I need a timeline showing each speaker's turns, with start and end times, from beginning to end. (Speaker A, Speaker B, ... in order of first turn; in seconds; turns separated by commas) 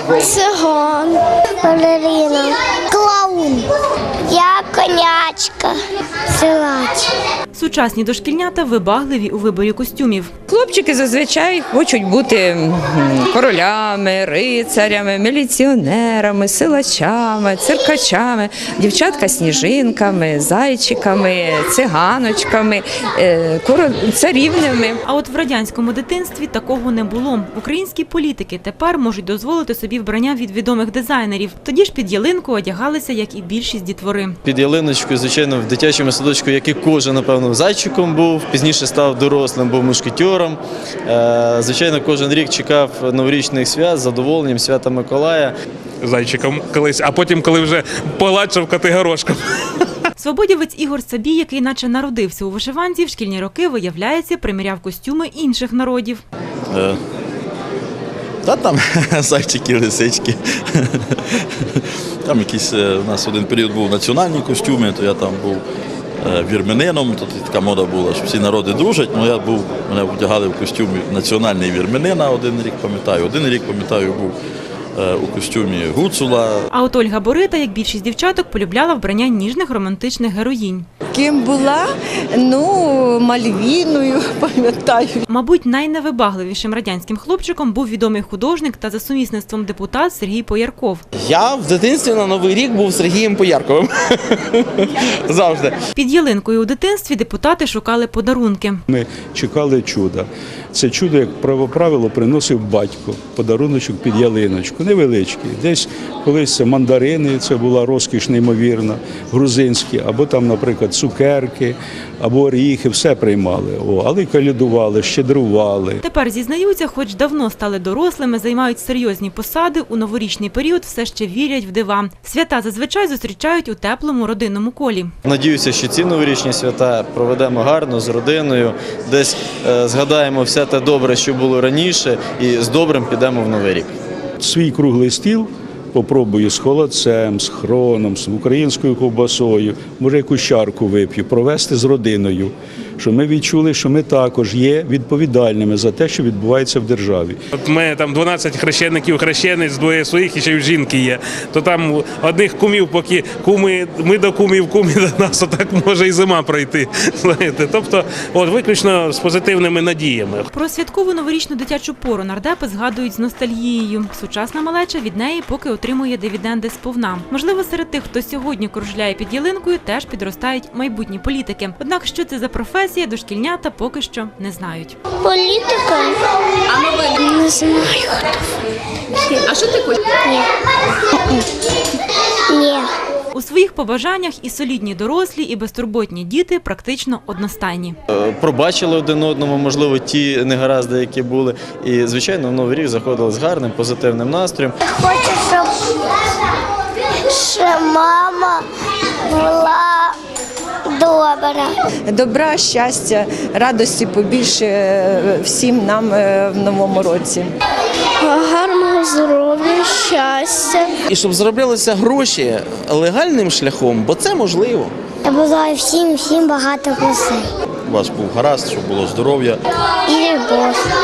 Speaker A: 1.6-3.7, Speaker A: 4.3-7.1, Speaker B: 7.5-10.3, Speaker C: 10.5-25.0, Speaker B: 25.0-34.4, Speaker D: 34.4-45.5, Speaker E: 46.0-49.4, Speaker B: 50.2-56.2, Speaker F: 56.7-57.0, Speaker F: 58.4-65.6, Speaker F: 66.2-74.3, Speaker F: 75.0-76.7, Speaker B: 76.7-80.8, Speaker G: 81.1-85.2, Speaker B: 85.3-91.0, Speaker H: 91.2-95.8, Speaker B: 95.9-98.8, Speaker I: 98.9-116.0, Speaker B: 116.0-125.1, Speaker D: 125.2-133.9, Speaker I: 134.4-147.4, Speaker E: 147.5-160.4, Speaker B: 160.5-175.0, Speaker A: 175.2-176.2, Speaker A: 177.1-178.6, Speaker A: 180.2-180.5, Speaker A: 182.5-182.9, Speaker B: 183.3-187.9, Speaker D: 188.1-194.8, Speaker A: 194.8-196.0, Speaker A: 197.3-198.6, Speaker A: 199.2-200.2, Speaker A: 200.9-201.7, Speaker G: 202.1-207.5, Speaker A: 208.7-210.9, Speaker H: 211.1-214.9, Speaker A: 215.2-217.4, Speaker F: 217.8-219.6, Speaker A: 220.1-220.9